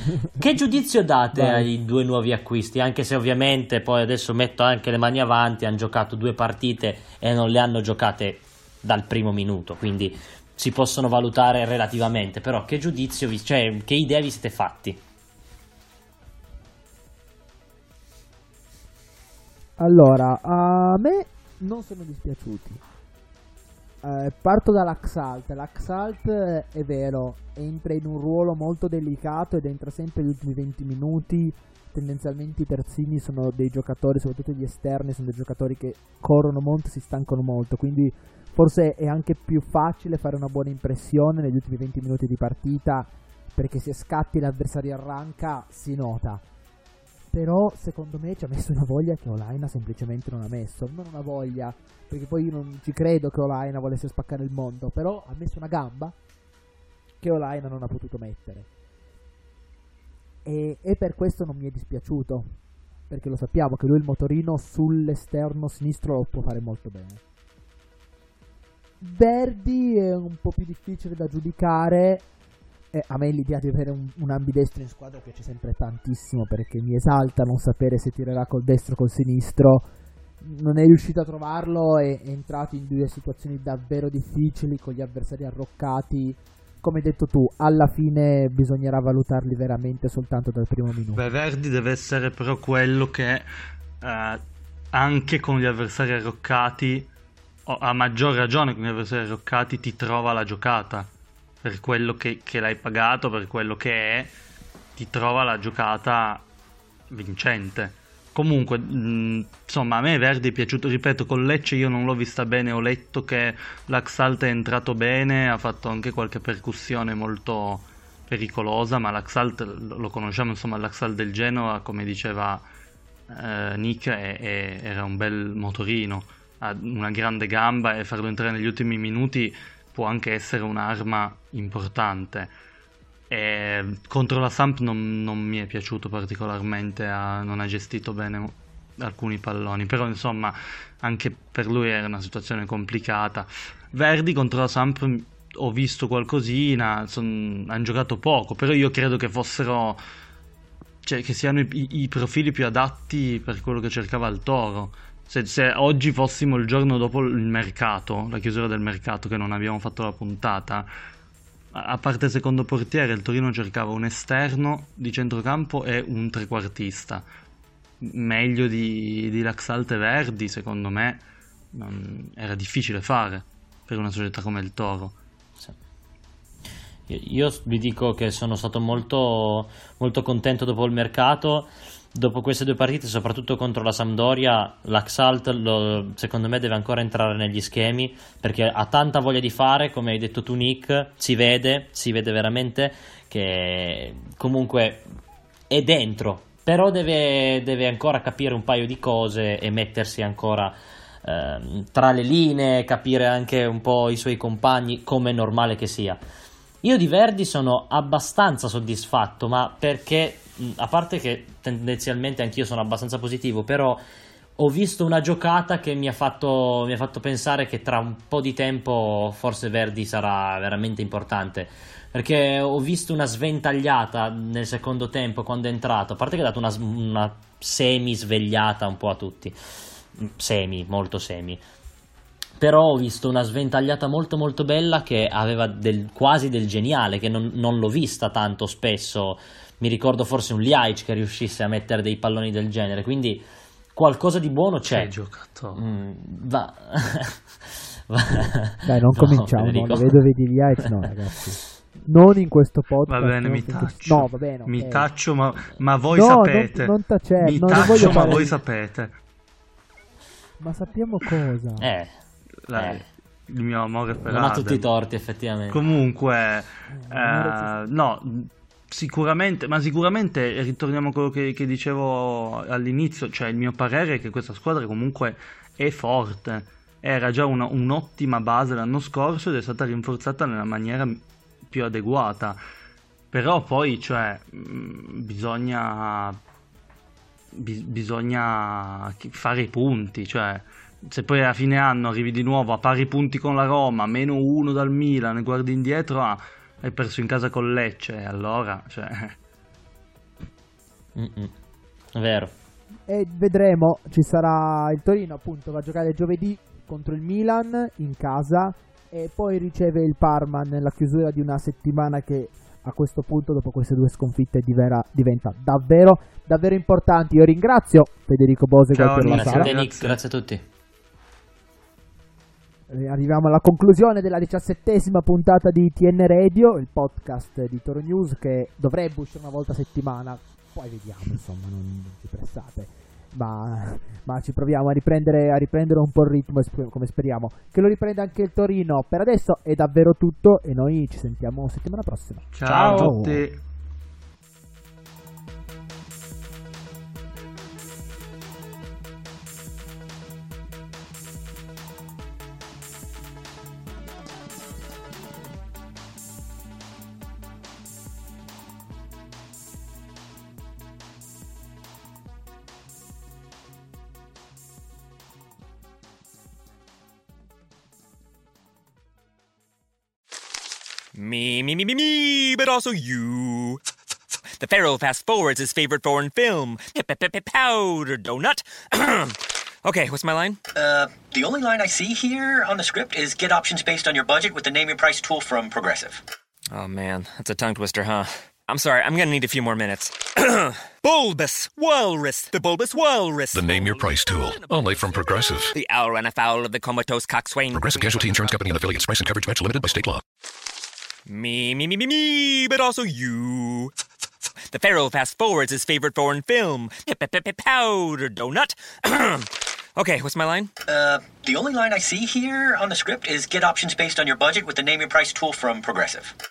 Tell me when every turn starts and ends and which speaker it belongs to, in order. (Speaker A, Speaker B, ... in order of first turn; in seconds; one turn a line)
Speaker A: 0.4-15.0
Speaker B: 1.4-1.7
Speaker B: 19.8-22.8
Speaker B: 24.0-46.4
Speaker B: 47.3-56.1
Speaker B: 57.2-58.7
Speaker B: 60.4-62.5
Speaker B: 63.1-67.2
Speaker B: 69.0-72.2
Speaker B: 72.9-79.9
Speaker B: 80.4-91.2
Speaker C: 91.1-93.5
Speaker C: 94.0-94.4
Speaker C: 94.9-97.1
Speaker C: 97.7-101.1
Speaker C: 101.6-104.3
Speaker C: 105.0-106.5
Speaker C: 107.1-122.6
Speaker C: 123.3-132.5
Speaker C: 133.3-150.0
Speaker C: 151.0-160.9
Speaker C: 161.7-167.2
Speaker C: 168.0-175.2
Speaker A: 177.1-195.1
Speaker A: 195.7-206.2
Speaker A: 206.8-214.0
Speaker A: 214.6-229.6
Speaker A: 230.1-231.6
Speaker A: 232.6-245.1
Speaker C: 244.9-245.8
Speaker A: 245.7-250.2
Speaker B: 248.8-255.1
Speaker C: 253.1-259.1
Speaker B: 256.1-258.5
Speaker A: 257.7-258.4
Speaker B: 260.6-261.9
Speaker A: 261.8-262.1
Speaker C: 262.7-264.8
Speaker A: 262.7-263.1
Speaker A: 264.3-265.8
Speaker C: 265.7-282.6
Speaker B: 266.9-267.7
Speaker C: 283.3-286.4
Speaker C: 287.5-299.4
Speaker A: 301.1-301.5
Speaker A: 302.1-302.5
Speaker B: 303.1-319.7
Speaker C: 318.9-320.2
Speaker A: 319.3-320.6
Speaker B: 322.9-343.4
Speaker C: 342.6-343.6
Speaker D: 371.1-373.8
Speaker D: 374.6-380.6
Speaker E: 380.8-386.2
Speaker D: 386.7-398.8
Speaker F: 393.5-395.7
Speaker F: 397.7-400.2
Speaker D: 401.3-403.9
Speaker D: 404.7-410.7
Speaker E: 410.9-416.3